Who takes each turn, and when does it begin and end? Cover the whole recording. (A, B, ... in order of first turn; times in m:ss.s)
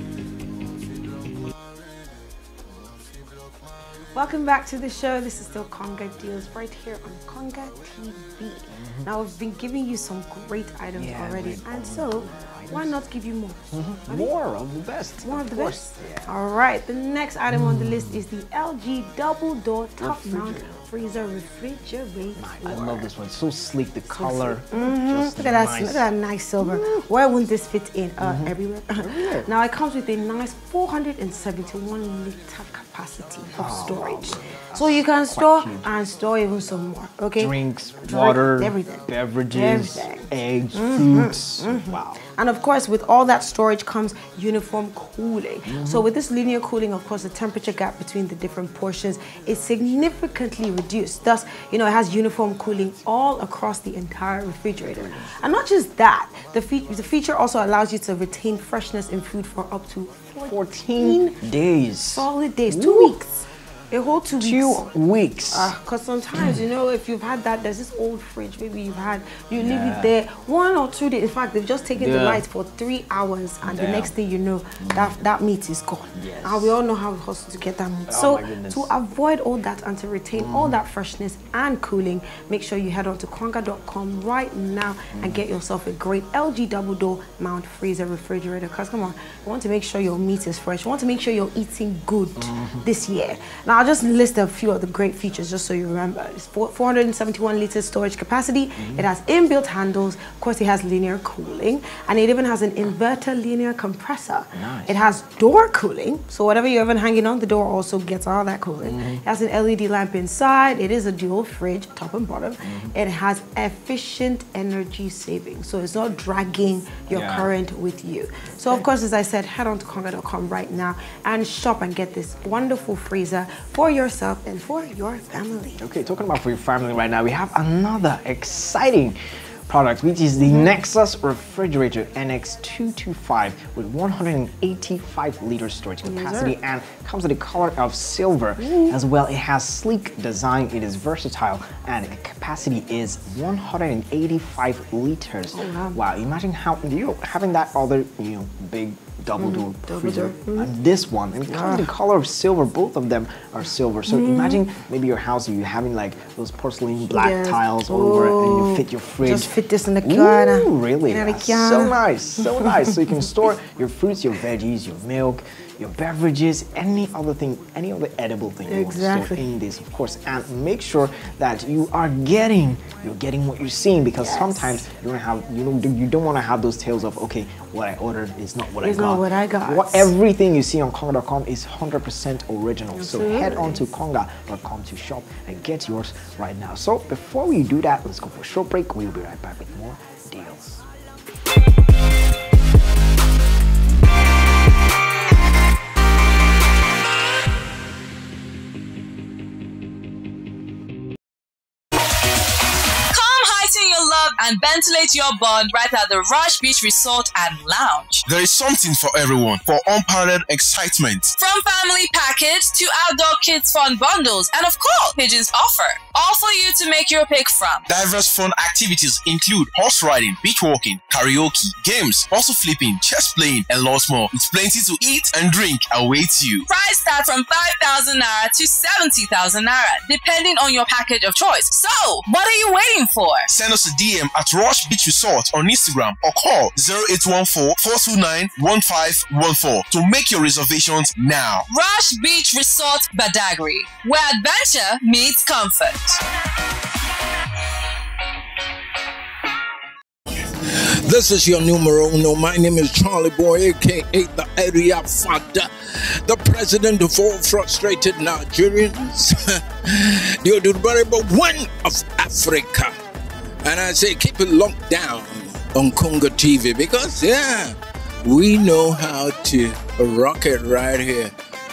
0:04.1-0:14.3 A
0:08.7-0:09.1 B
0:10.9-0:13.0 B
0:13.7-0:16.3 B
0:15.2-0:23.1 A
0:17.5-0:18.2 B
0:20.0-0:20.8 B
0:22.4-0:26.1 B
0:24.1-1:01.4 A
0:26.6-0:27.0 B
0:28.2-0:29.5 B
0:33.6-0:35.9 B
0:37.4-0:42.2 B
0:45.6-0:46.1 B
0:54.8-0:55.3 B
1:00.4-1:03.2 B
1:02.1-1:04.9 A
1:04.4-1:05.7 B
1:05.5-2:05.8 A
1:09.6-1:10.1 B
1:12.0-1:12.4 B
1:13.6-1:14.1 B
1:14.8-1:15.2 B
1:16.1-1:16.7 B
1:18.1-1:18.9 B
1:20.4-1:20.8 B
1:25.1-1:25.4 B
1:32.4-1:32.8 B
1:38.8-1:39.0 B
1:44.5-1:45.0 B
1:48.8-1:49.2 B
1:52.6-1:52.9 B
1:57.1-1:57.5 B
2:05.8-2:09.2 B
2:09.7-3:10.8 B
2:16.0-2:16.6 A
2:18.6-2:19.0 A
2:25.5-2:26.0 A
2:29.4-2:30.7 A
2:31.5-2:31.9 A
2:34.1-2:34.6 A
2:37.1-2:42.0 A
2:48.7-2:49.4 A
2:54.2-2:54.8 A
2:58.8-3:00.1 A
3:02.9-3:03.8 A
3:23.1-3:28.2 C
3:28.3-3:31.3 D
3:31.4-3:37.8 C
3:37.9-3:46.6 D
3:46.7-3:53.5 C
3:53.5-4:01.6 D
4:01.7-4:06.2 C
4:10.8-4:23.0 E
4:23.6-4:31.3 E